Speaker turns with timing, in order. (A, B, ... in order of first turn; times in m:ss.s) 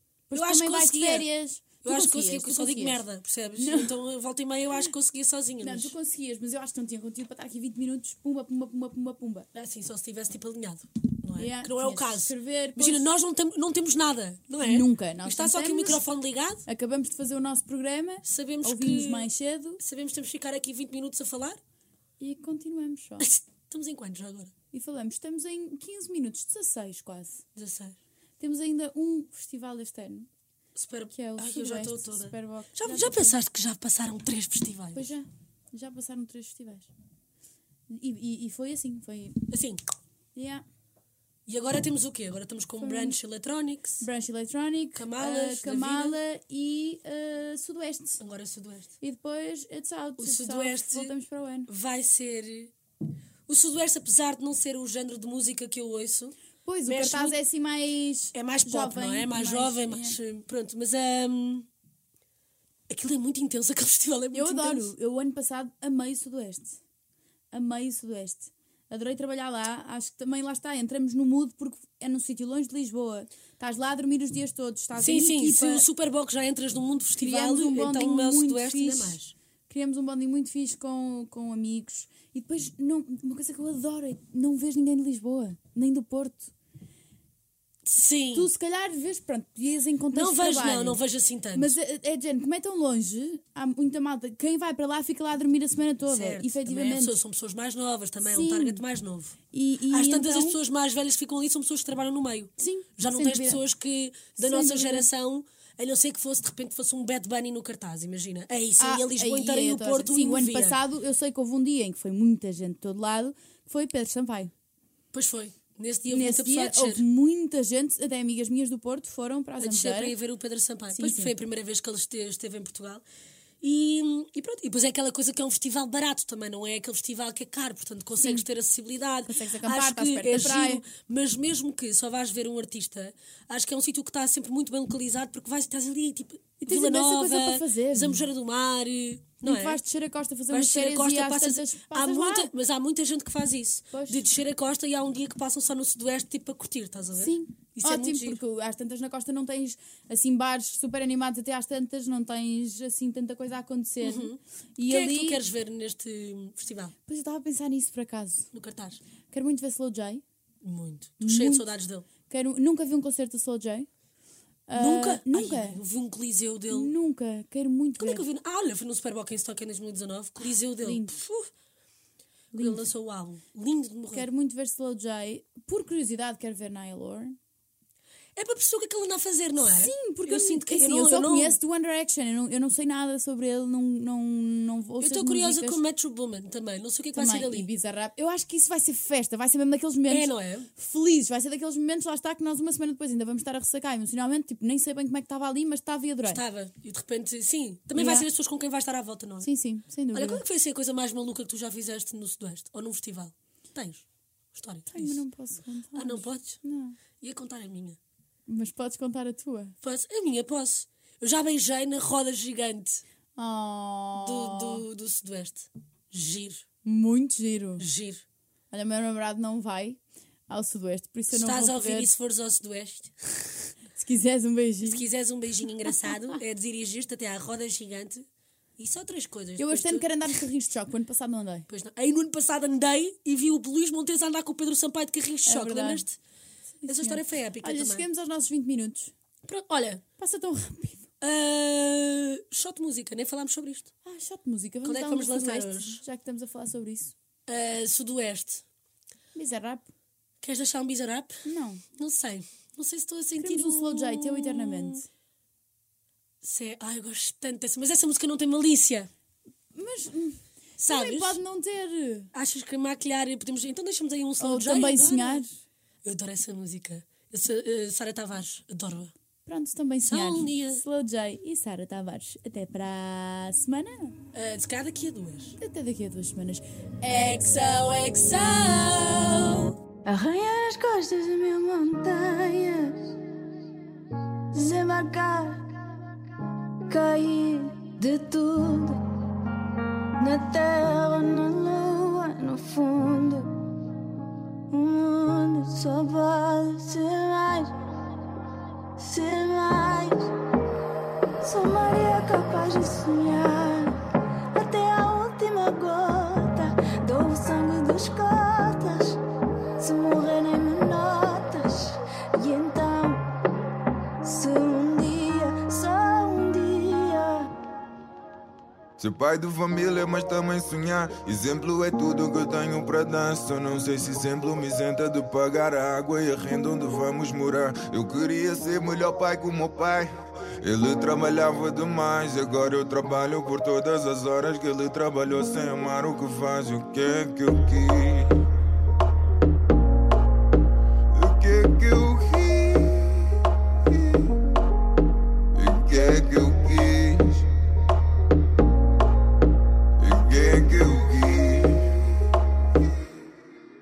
0:00.3-0:03.0 A
0:00.3-0:01.3 B
0:01.8-0:05.9 B
0:03.6-0:03.9 A
0:05.6-0:09.5 A
0:09.5-0:16.6 B
0:11.4-0:13.1 A
0:14.6-0:16.0 A
0:16.7-0:19.8 A
0:18.2-0:19.3 B
0:19.8-0:21.6 B
0:22.2-0:23.3 A
0:23.2-0:24.5 B
0:24.7-0:27.4 A
0:27.6-0:28.0 B
0:28.4-0:30.3 A
0:30.8-0:35.1 B
0:31.1-0:33.4 A
0:35.0-0:36.9 A
0:37.9-0:39.4 A
0:39.5-0:39.8 B
0:40.4-0:40.6 A
0:41.5-0:44.0 B
0:42.8-0:43.2 A
0:44.0-0:48.2 A
0:45.0-0:46.2 B
0:48.2-0:48.9 B
0:49.0-0:51.7 A
0:50.2-0:51.1 B
0:51.7-0:52.7 B
0:53.5-0:56.4 B
0:56.6-1:00.2 A
0:56.9-0:57.4 B
0:58.3-1:01.7 B
1:02.9-1:04.9 B
1:04.3-1:06.8 A
1:07.5-1:15.8 A
1:15.0-1:19.3 B
1:17.2-1:26.5 A
1:27.9-1:28.5 B
1:28.3-1:31.0 A
1:30.1-1:31.7 B
1:31.6-1:37.2 A
1:36.1-1:39.4 B
1:38.2-1:38.8 A
1:39.5-1:40.6 A
1:39.9-1:50.8 B
1:42.6-1:43.6 A
1:44.4-1:45.1 A
1:48.8-1:54.5 A
1:55.1-1:57.0 B
1:56.1-2:00.2 A
1:59.6-2:03.0 B
2:00.9-2:01.3 A
2:03.6-2:19.8 B
2:08.2-2:08.5 A
2:09.3-2:10.8 A
2:16.6-2:18.2 A
2:19.4-2:22.5 A
2:20.5-2:28.4 B
2:23.9-2:24.3 A
2:27.2-2:35.4 A
2:34.0-2:36.9 B
2:37.1-2:38.5 A
2:38.5-2:39.0 B
2:39.3-2:40.2 A
2:40.6-2:42.1 B
2:41.2-2:41.6 A
2:42.3-2:43.9 A
2:44.7-2:45.8 A
2:44.8-2:46.9 B
2:46.7-2:48.2 A
2:48.0-2:51.5 B
2:50.8-2:51.1 A
2:52.5-2:52.9 A
2:52.5-2:54.3 B
2:54.1-2:57.4 A
2:58.4-3:01.6 B
2:59.6-3:05.8 A
3:05.0-3:07.7 B
3:07.2-3:16.4 A
3:10.1-3:10.7 B
3:16.2-3:19.5 B
3:18.0-3:18.3 A
3:19.4-3:20.4 A
3:20.1-3:25.2 B
3:24.9-3:27.0 A
3:25.9-3:26.6 B
3:27.2-3:28.0 B
3:28.5-3:29.8 A
3:29.8-3:33.0 B
3:33.4-3:34.8 A
3:34.2-3:36.6 B
3:36.8-3:37.9 A
3:37.8-3:38.2 B
3:38.7-3:42.1 A
3:41.3-3:43.4 B
3:44.0-3:45.0 A
3:44.8-3:48.2 B
3:48.8-3:50.1 B
3:49.6-3:51.7 A
3:51.7-3:56.2 B
3:55.5-3:56.0 A
3:56.8-3:59.1 A
3:56.9-3:58.0 B
3:59.4-4:00.0 B
4:00.2-4:01.1 A
4:01.2-4:03.9 B
4:04.0-4:07.1 A
4:04.8-4:06.0 B
4:07.5-4:08.6 B
4:09.4-4:09.9 A
4:10.4-4:11.4 B
4:11.4-4:11.8 A
4:12.0-4:15.0 B
4:13.4-4:15.1 A
4:16.4-4:19.1 B
4:19.8-4:22.3 A
4:20.8-4:21.4 B
4:22.3-4:25.5 B
4:24.4-4:25.5 A
4:26.0-4:29.1 B
4:29.5-4:34.2 A
4:30.1-4:30.8 B
4:34.3-4:35.6 B
4:35.6-4:38.3 A
4:37.2-4:39.6 B
4:40.0-4:43.2 C
4:44.5-4:45.7 C
4:46.9-4:49.0 C
4:50.2-4:53.5 C
4:54.7-4:57.8 C
4:59.0-5:00.3 C
5:01.4-5:04.0 C
5:04.5-5:09.2 C
5:09.8-5:13.3 C
5:14.2-5:17.5 C
5:19.0-5:30.1 D
5:30.6-5:38.5 D
5:41.1-5:44.3 D
5:45.5-5:47.5 D
5:50.0-5:52.3 D